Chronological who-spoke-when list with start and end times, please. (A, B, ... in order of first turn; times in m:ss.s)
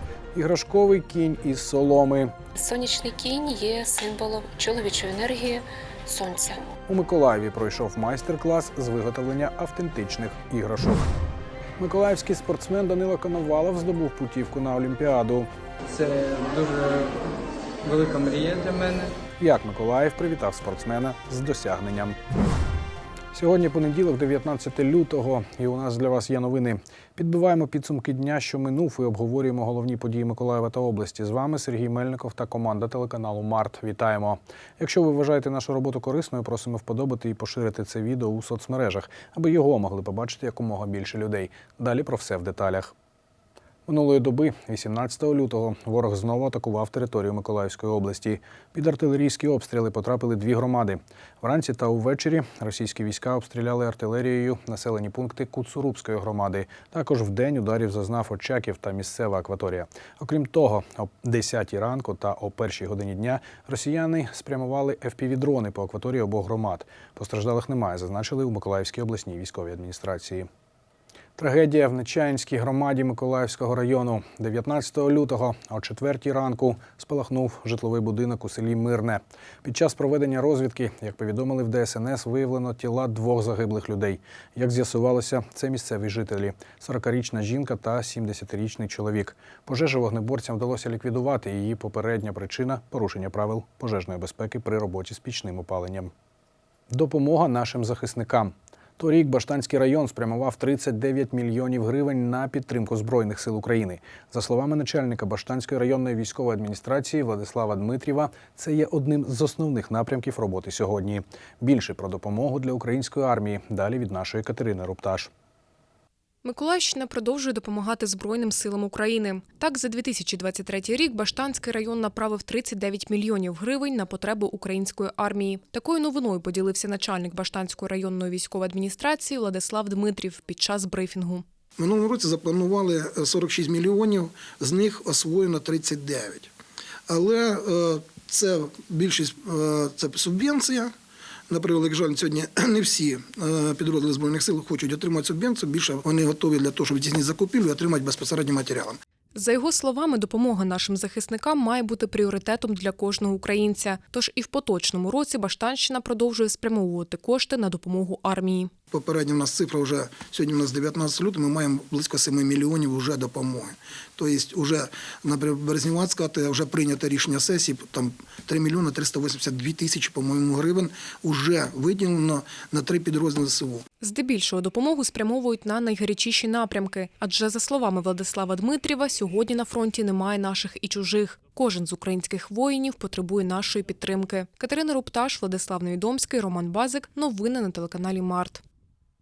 0:00.3-0:02.3 A
0:02.6-0:06.6 B
0:06.9-0:11.1 A
0:11.8-0:15.5 A
0:15.9-0:17.3 C
0:17.8-0:19.1 C
0:19.4-0:22.2 A
0:23.3-0:42.9 A
0:43.9-1:10.5 A
1:11.4-1:36.1 A
1:36.9-1:55.3 A
1:56.4-2:11.4 D
2:11.8-2:16.5 E
2:17.1-2:20.9 E
2:21.5-2:29.0 E
2:29.3-2:38.7 D
2:38.9-2:53.8 E
2:54.0-3:08.6 D